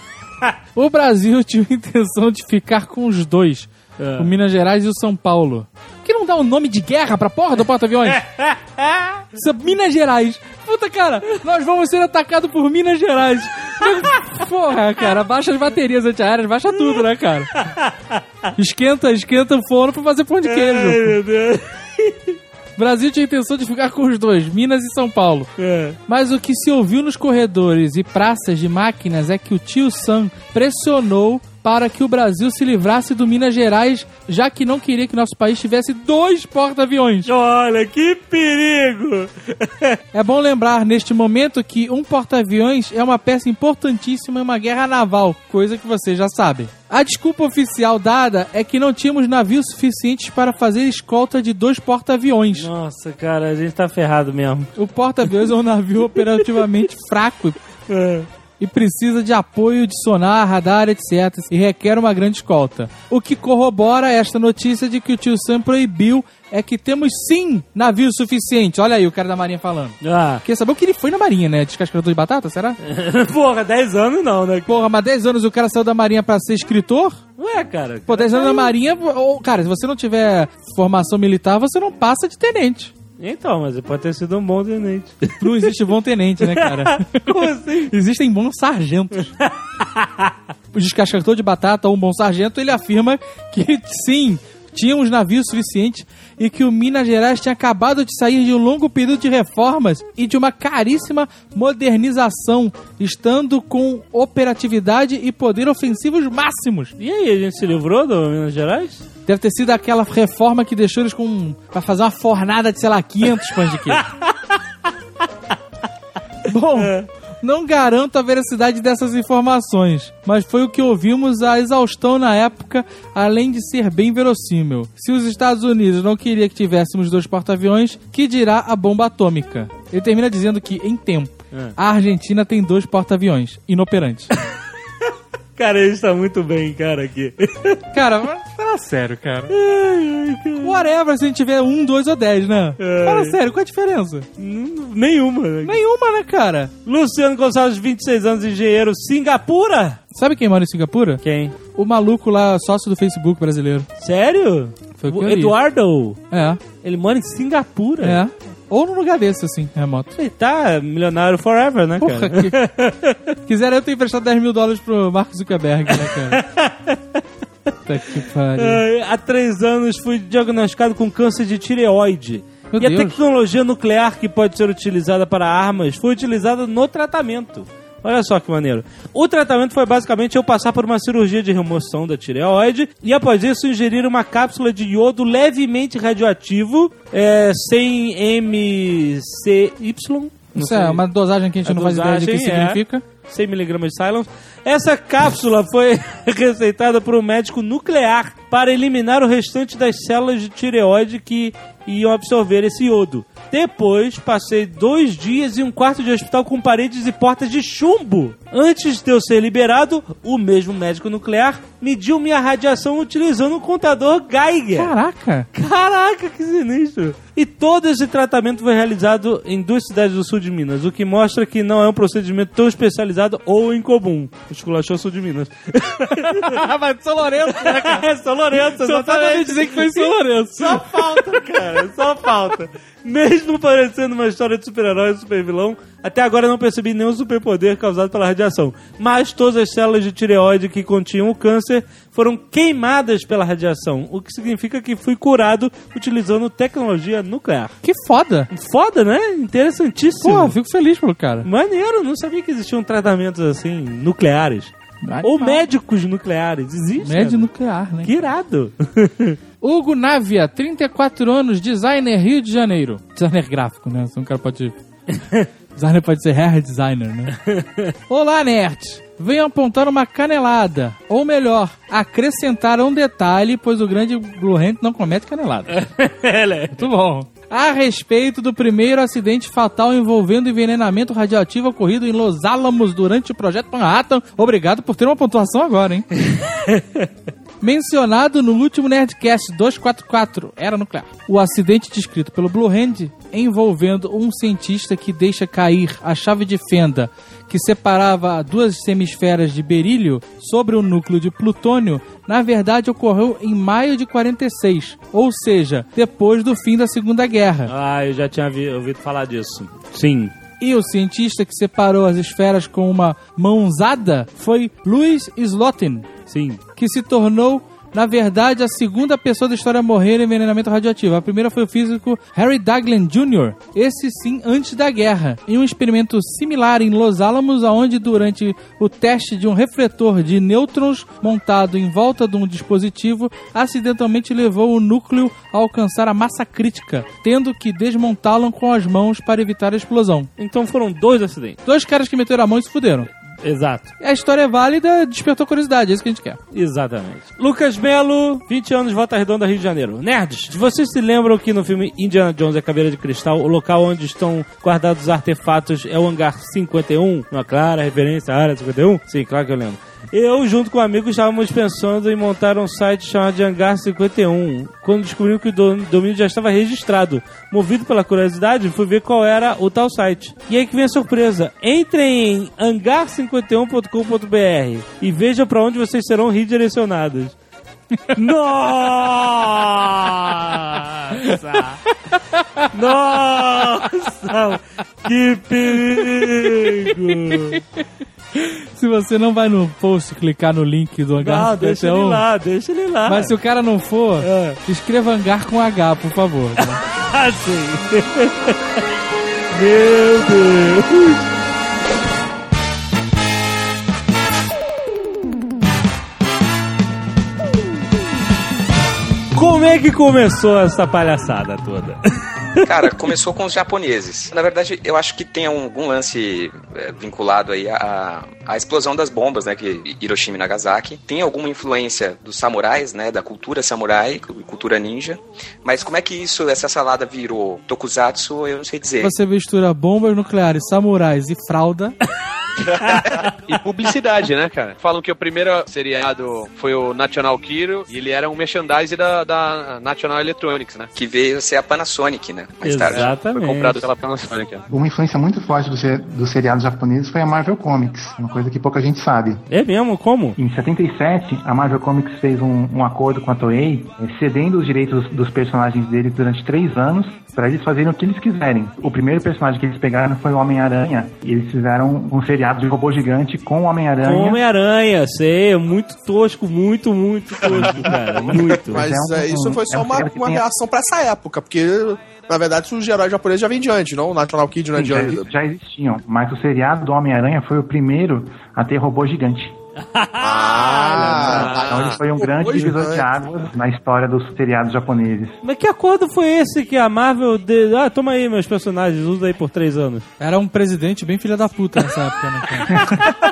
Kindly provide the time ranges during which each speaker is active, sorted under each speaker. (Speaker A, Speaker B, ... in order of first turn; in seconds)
Speaker A: 0.8-8.2, 9.3-17.6, 18.6-21.2, 22.8-25.5, 26.1-37.3, 40.1-52.7, 54.8-57.6, 58.6-72.8, 74.7-77.2, 78.1-82.9, 85.4-89.4, 90.7-106.9, 109.3-114.1, 116.5-134.3, 137.9-139.5, 140.6-144.3, 145.6-146.7, 150.1-151.2, 151.8-153.9, 155.0-155.6, 156.3-156.6, 158.0-160.1, 162.0-162.6, 163.5-166.4, 167.8-168.8, 172.7-173.2, 190.6-193.0, 214.8-215.5, 226.2-228.1, 228.7-230.9, 247.8-248.5, 250.2-251.5, 255.0-255.7, 257.0-258.1, 259.6-264.7, 265.8-267.4, 268.1-275.8, 276.8-286.1, 287.6-307.7, 310.6-316.1, 316.8-340.3, 341.7-343.1, 344.0-346.4, 385.8-387.6, 388.4-392.2, 393.1-396.8, 429.0-432.0, 490.2-493.1
Speaker B: 4.0-4.3, 8.1-9.2, 17.6-18.2, 20.4-22.4, 25.6-26.0, 37.2-40.0, 52.6-54.7, 57.9-58.3, 70.0-70.4, 72.8-74.7, 77.4-78.7, 83.2-85.7, 86.4-87.9, 89.4-90.3, 107.0-109.0, 113.9-114.6, 116.8-117.1, 135.6-137.8, 139.5-140.8, 142.8-143.4, 144.4-145.8, 146.9-150.0, 151.2-151.6, 154.0-156.2, 156.8-158.2, 160.2-163.2, 166.0-167.2, 168.6-191.0, 191.7-214.9, 215.5-226.6, 227.5-247.8, 248.5-250.5, 251.4-257.5, 258.0-259.4, 265.1-265.5, 267.4-267.9, 275.7-276.9, 286.3-287.1, 307.7-310.3, 316.3-316.6, 340.4-341.6, 343.4-343.9, 346.5-377.4, 378.1-381.8, 382.7-387.6, 391.2-393.3, 394.2-394.6, 396.9-398.6, 399.5-401.3, 409.4-412.0, 442.6-443.8, 449.5-450.4, 464.0-468.9, 479.8-481.5, 485.4-490.1
Speaker C: 412.6-429.1, 440.9-443.1
Speaker D: 432.7-440.9, 442.9-444.7, 467.5-468.0, 481.3-482.0
Speaker E: 444.7-449.4, 450.4-464.4, 467.5-470.4, 474.8-479.6, 481.2-485.4
Speaker F: 468.7-475.3, 480.2-483.1